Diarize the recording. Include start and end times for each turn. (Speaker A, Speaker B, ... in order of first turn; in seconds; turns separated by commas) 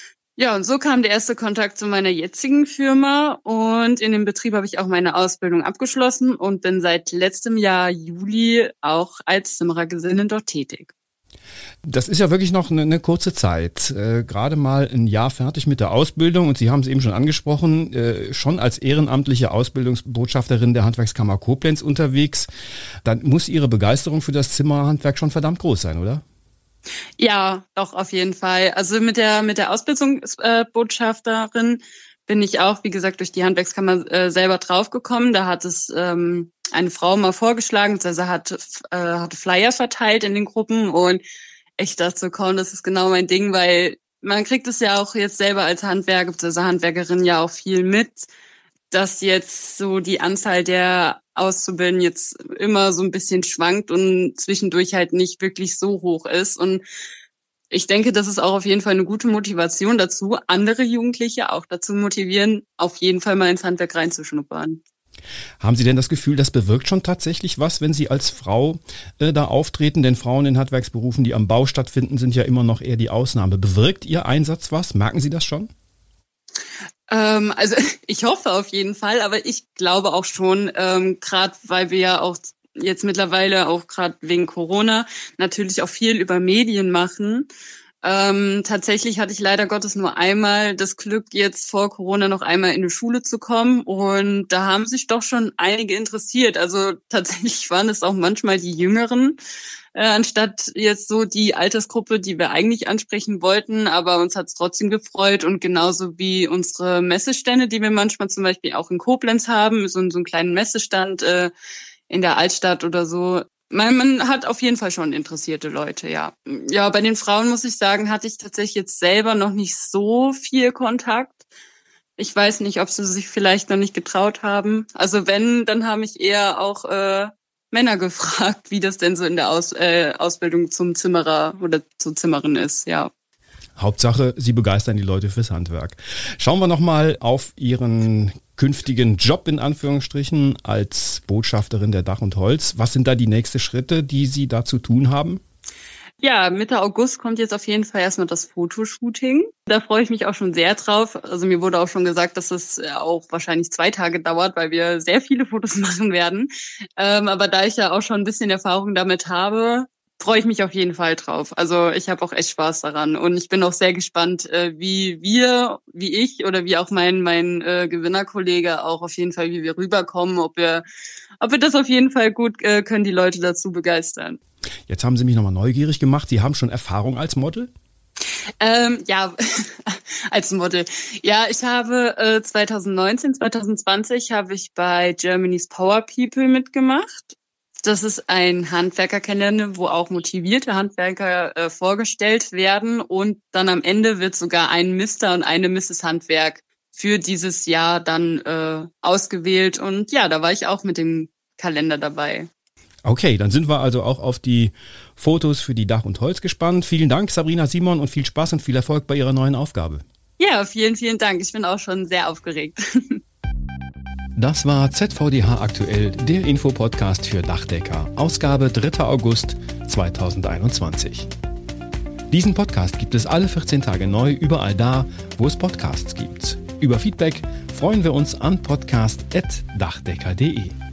Speaker A: 0.4-10.9, Speaker B: 11.9-22.5, Speaker B: 23.1-26.2, Speaker A: 27.2-41.2, Speaker A: 41.8-48.3, Speaker A: 48.9-56.8, Speaker A: 57.7-64.8, Speaker B: 65.6-75.7, Speaker A: 77.1-87.5, Speaker A: 88.0-99.4, Speaker A: 100.0-111.5, Speaker A: 112.1-121.4, Speaker A: 122.2-133.1, Speaker B: 133.8-145.4, Speaker A: 146.2-170.8, Speaker A: 171.4-174.4, Speaker B: 174.9-177.7, Speaker A: 178.6-202.5, Speaker B: 203.1-210.0, Speaker A: 210.4-213.2, Speaker B: 214.4-221.3, Speaker B: 222.3-230.8